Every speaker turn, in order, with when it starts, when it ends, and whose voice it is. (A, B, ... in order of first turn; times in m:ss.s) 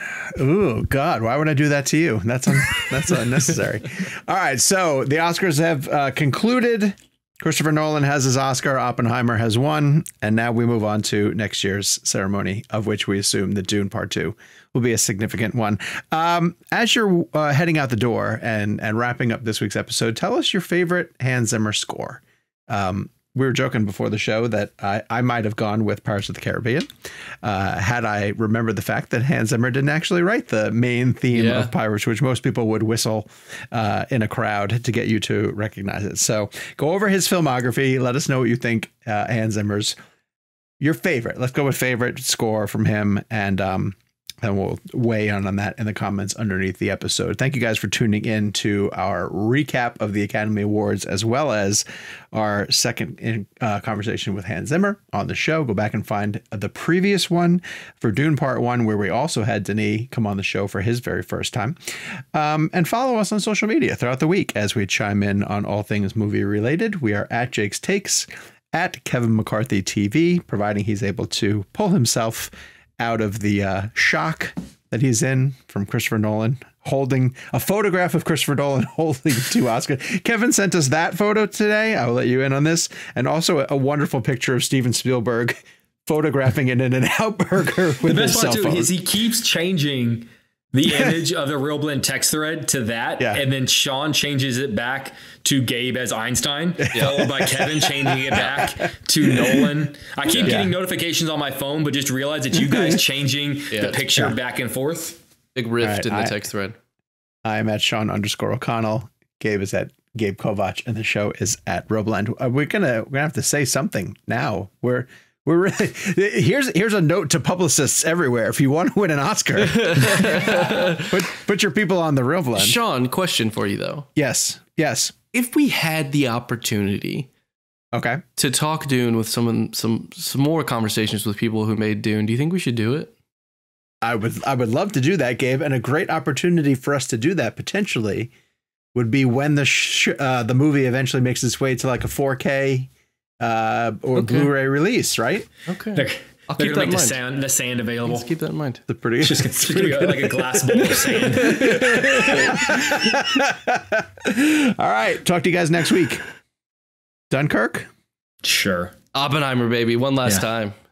0:00.3-0:26.9 A
0:27.4-0:40.0 A
0:31.3-0:31.7 B
0:40.8-1:28.9 A
1:28.0-1:45.2 C
1:33.2-1:33.4 A
1:36.8-1:39.7 A
1:36.9-1:37.2 B
1:40.3-1:40.6 B
1:40.4-1:40.7 A
1:42.6-1:43.0 A
1:43.7-1:44.0 B
1:45.6-1:46.8 B
1:45.8-1:46.4 A
1:47.4-2:02.8 A
1:59.6-2:01.2 B
2:02.6-2:04.1 B
2:04.2-2:05.1 A
2:05.3-2:07.3 B
2:07.9-2:08.2 A
2:08.4-2:13.1 B
2:14.0-2:18.3 A
2:18.9-2:22.9 A
2:23.4-2:25.5 A
2:24.2-2:24.5 B
2:25.7-2:27.2 B
2:25.9-2:28.3 C
2:28.0-2:28.8 B
2:28.9-2:36.2 A
2:29.2-2:32.5 C
2:31.5-2:32.6 B
2:37.3-2:37.9 A
2:38.4-2:38.9 C
2:39.1-2:40.7 B